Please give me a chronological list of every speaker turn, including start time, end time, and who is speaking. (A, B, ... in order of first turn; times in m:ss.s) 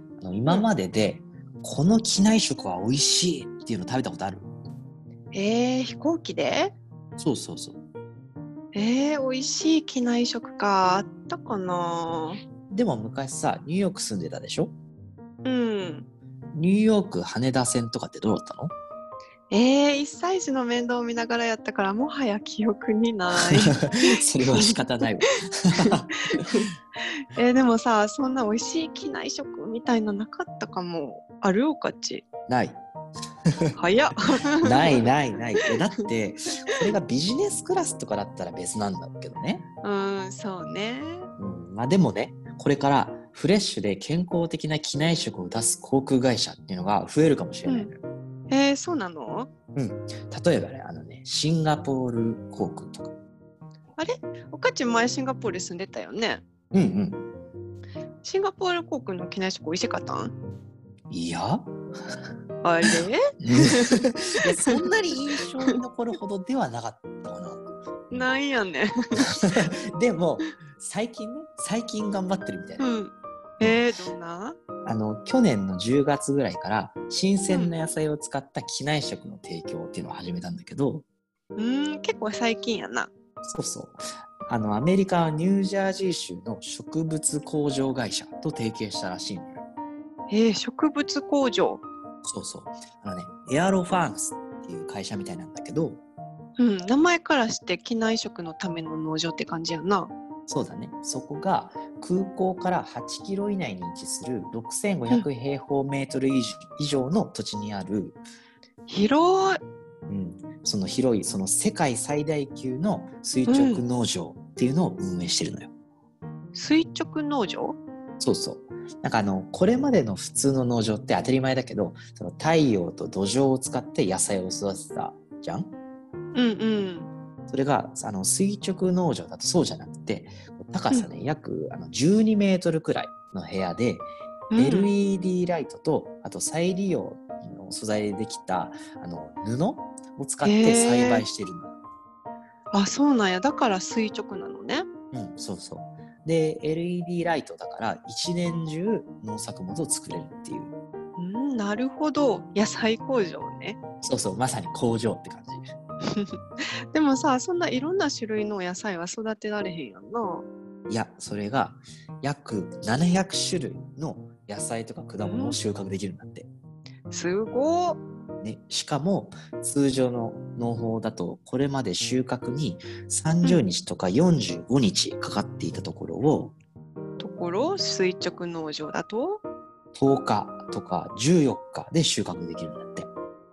0:00.2-0:04.5 A
0:05.3-0:06.7 B
0:07.2-0:07.8 A
0:08.7-0:12.4 B
0:12.7-0:14.7 A
0:15.4-0:16.1 B
0:16.5-0:18.7 A
0:19.5-0:24.8 B
0:23.5-0:26.7 A
0:25.8-0:26.6 B
0:27.3-0:32.2 B
0:32.5-0:32.8 A
0:33.8-0:35.1 B
0:34.6-0:39.6 A
0:39.8-0:41.3 B
0:41.4-0:48.0 A
0:48.5-0:49.5 B
0:49.7-0:53.1 A
0:54.0-0:56.4 B
0:56.7-0:57.2 A
0:58.2-1:00.3 B
1:01.1-1:01.7 A
1:02.6-1:03.9 B
1:02.8-1:08.3 A
1:08.1-1:09.6 B
1:09.2-1:12.8 A
1:12.8-1:14.6 B
1:14.8-1:21.0 A
1:17.5-1:17.7 B
1:21.6-1:23.1 B
1:23.4-1:29.6 A
1:30.3-1:31.8 B
1:32.2-1:36.0 A
1:36.6-1:40.1 B
1:40.5-1:48.2 A
1:48.9-1:49.6 B
1:50.1-1:55.7 A
1:53.5-1:53.8 B
1:56.5-1:57.8 B
1:58.2-2:05.7 A
2:06.3-2:07.1 B
2:07.5-2:21.8 A
2:14.5-2:14.9 B
2:20.4-2:21.2 B
2:22.7-2:24.9 B
2:25.1-2:30.7 A
2:31.2-2:33.8 B
2:34.0-2:35.6 A
2:36.1-2:36.4 B
2:36.9-2:40.5 B
2:40.9-2:46.5 A
2:45.2-2:45.6 B
2:47.1-2:48.0 B
2:48.4-2:56.6 A
2:57.2-2:59.4 B
2:59.9-3:03.1 A